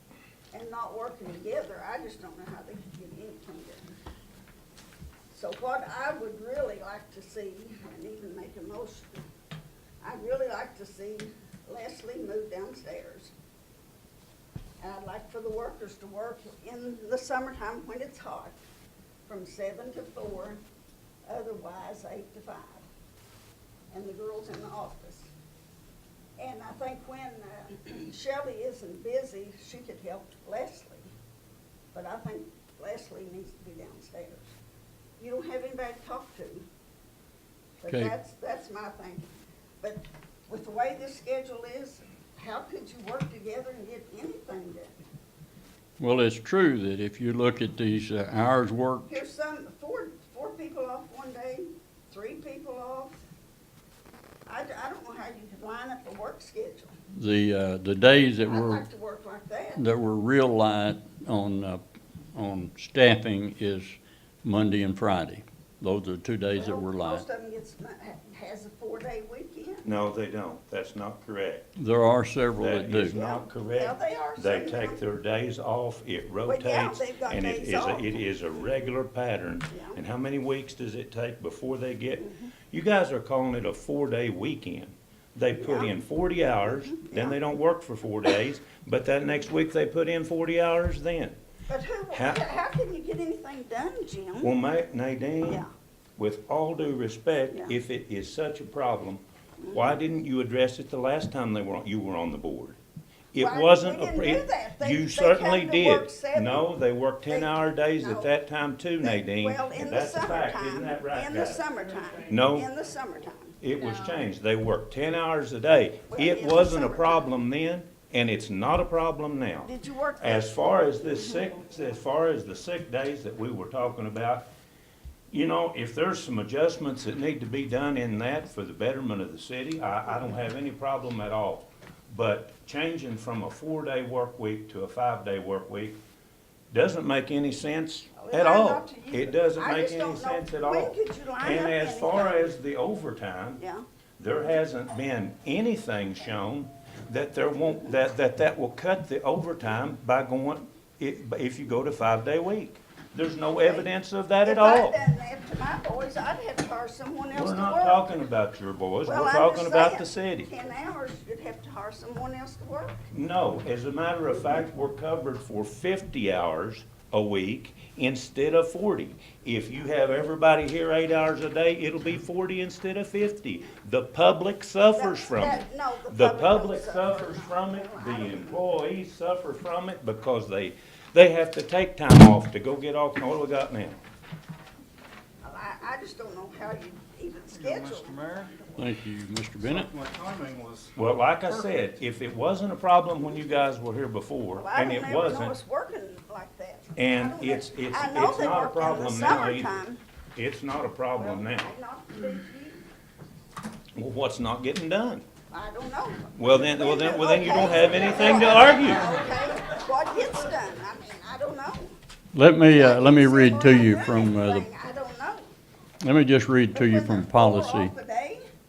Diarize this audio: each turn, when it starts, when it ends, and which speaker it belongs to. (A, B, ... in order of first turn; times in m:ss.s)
0:00.5-0:04.0 A
0:05.3-0:09.2 A
0:10.0-0:13.3 A
0:14.8-0:18.6 A
0:19.3-0:20.6 A
0:21.3-0:22.8 A
0:23.9-0:25.3 A
0:26.4-0:31.1 A
0:31.9-0:34.5 A
0:35.2-0:36.7 A
0:37.8-0:39.3 A
0:39.8-0:44.9 A
0:46.0-0:49.1 B
0:49.1-0:53.1 A
0:54.5-0:57.0 A
0:57.1-0:58.9 B
0:58.5-0:59.8 A
0:59.8-1:01.8 B
1:02.4-1:07.2 B
1:06.6-1:09.9 A
1:09.8-1:11.7 C
1:11.8-1:13.2 B
1:12.6-1:31.4 C
1:13.0-1:15.0 A
1:16.5-1:18.3 A
1:19.7-1:20.0 A
1:22.2-1:22.5 A
1:25.6-1:25.9 A
1:26.7-1:27.4 A
1:31.7-1:34.5 A
1:32.1-1:32.4 C
1:34.4-1:35.6 C
1:36.2-1:42.8 C
1:39.6-1:39.9 A
1:43.3-1:51.7 C
1:43.4-1:46.7 A
1:47.3-1:48.3 A
1:49.0-1:54.2 A
1:52.3-1:52.7 C
1:53.6-2:04.5 C
1:56.1-1:57.3 A
1:59.6-2:01.6 A
2:05.3-2:16.0 C
2:16.7-2:23.6 C
2:18.2-2:22.6 A
2:24.2-2:35.0 C
2:33.6-2:33.9 A
2:34.4-2:38.2 A
2:37.3-2:40.5 C
2:39.0-2:43.0 A
2:43.1-3:04.0 C
2:55.0-2:58.6 A
3:05.4-3:08.8 A
3:07.5-3:08.6 D
3:08.8-3:09.9 B
3:09.6-3:11.9 D
3:11.0-3:15.5 C
3:14.6-3:20.0 A
3:17.0-3:19.8 C
3:20.4-3:21.7 C
3:21.2-3:22.8 A
3:24.0-3:25.2 C
3:25.5-3:32.0 A
3:26.4-3:29.2 C
3:32.3-3:34.6 B
3:32.7-3:35.5 A
3:36.0-3:37.9 B
3:36.7-3:38.4 A